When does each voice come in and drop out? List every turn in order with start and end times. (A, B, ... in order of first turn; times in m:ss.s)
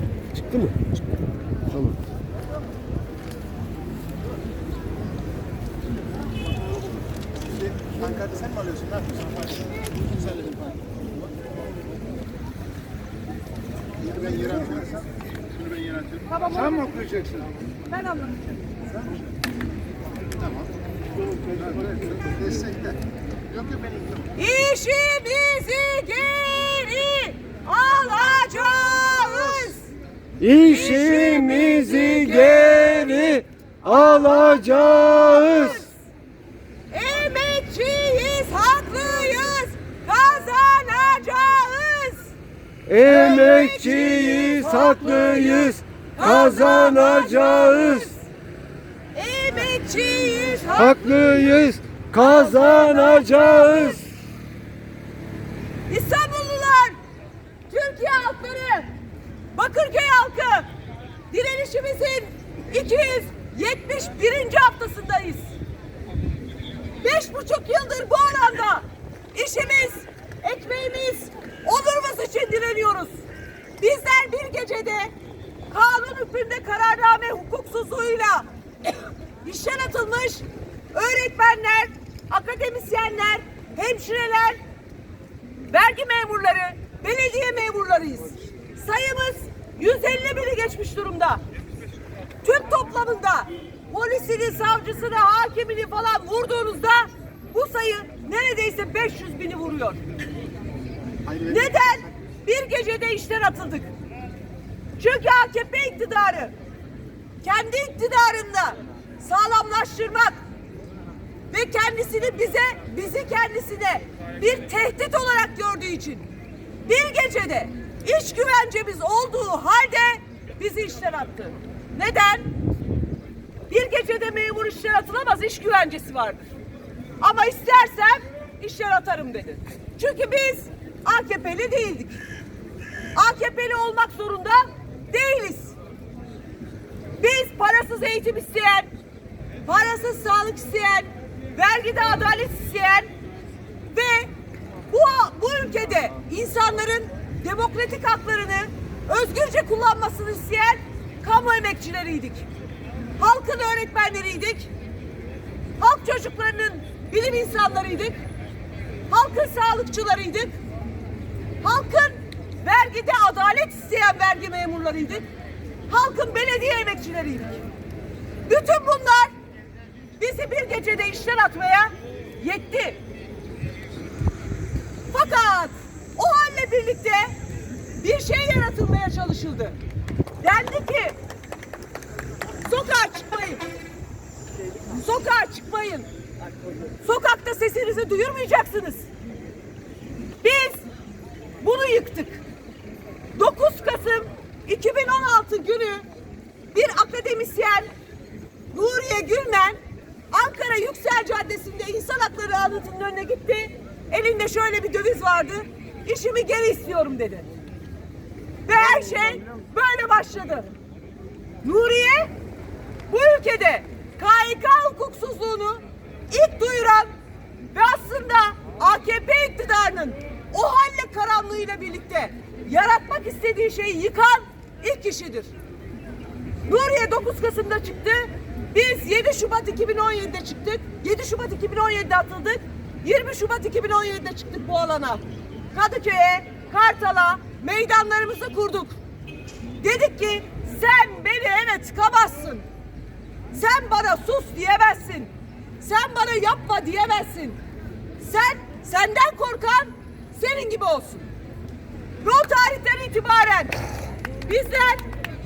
0:00.3-0:00.8 A
0:08.1-0:08.7 B
0:14.2-0:14.9 B
0:16.4-0:16.7 C
0:16.5-0:17.4 B
0:21.7-0:22.8 B
0:23.7-0:24.0 B
0:24.4-0:29.8 C
0:30.4-0:32.8 A
0:30.4-0:35.9 C
0:34.4-0:35.5 A
0:36.9-0:42.3 C
0:42.9-0:45.6 A
0:42.9-0:48.1 C
0:49.1-0:54.0 C
0:51.1-0:53.7 A
0:55.9-0:57.0 C
0:57.7-0:58.9 C
0:59.5-1:00.7 C
1:01.3-1:05.4 C
1:07.0-1:13.2 C
1:13.8-1:15.1 C
1:15.7-1:18.5 C
1:19.4-1:24.6 C
1:25.7-1:31.4 C
1:32.4-1:40.0 C
1:41.3-1:43.9 C
1:45.0-1:46.5 C
1:47.4-1:50.4 C
1:51.5-1:56.3 C
1:56.8-2:02.5 C
2:03.7-2:06.4 C
2:07.2-2:12.2 C
2:13.1-2:15.7 C
2:17.2-2:18.9 C
2:19.6-2:23.1 C
2:23.9-2:24.3 C
2:24.9-2:32.4 C
2:33.2-2:34.7 C
2:35.8-2:38.2 C
2:39.1-2:40.6 C
2:41.6-2:45.2 C
2:45.9-2:47.6 C
2:48.5-2:49.3 C
2:50.2-2:53.0 C
2:55.1-2:57.3 C
2:58.0-2:59.8 C
3:00.4-3:01.2 C
3:02.6-3:03.6 C
3:04.9-3:06.1 C
3:07.0-3:09.1 C
3:10.4-3:10.8 C
3:11.6-3:12.4 C
3:13.3-3:16.1 C
3:16.7-3:17.9 C
3:18.7-3:19.8 C
3:20.3-3:27.5 C
3:28.6-3:30.7 C
3:31.6-3:32.3 C
3:33.1-3:37.1 C
3:37.7-3:45.5 C
3:46.6-3:55.2 C
3:55.7-3:59.0 C
3:59.8-4:02.6 C
4:03.5-4:07.6 C
4:08.2-4:11.3 C
4:12.2-4:13.8 C
4:14.4-4:15.0 C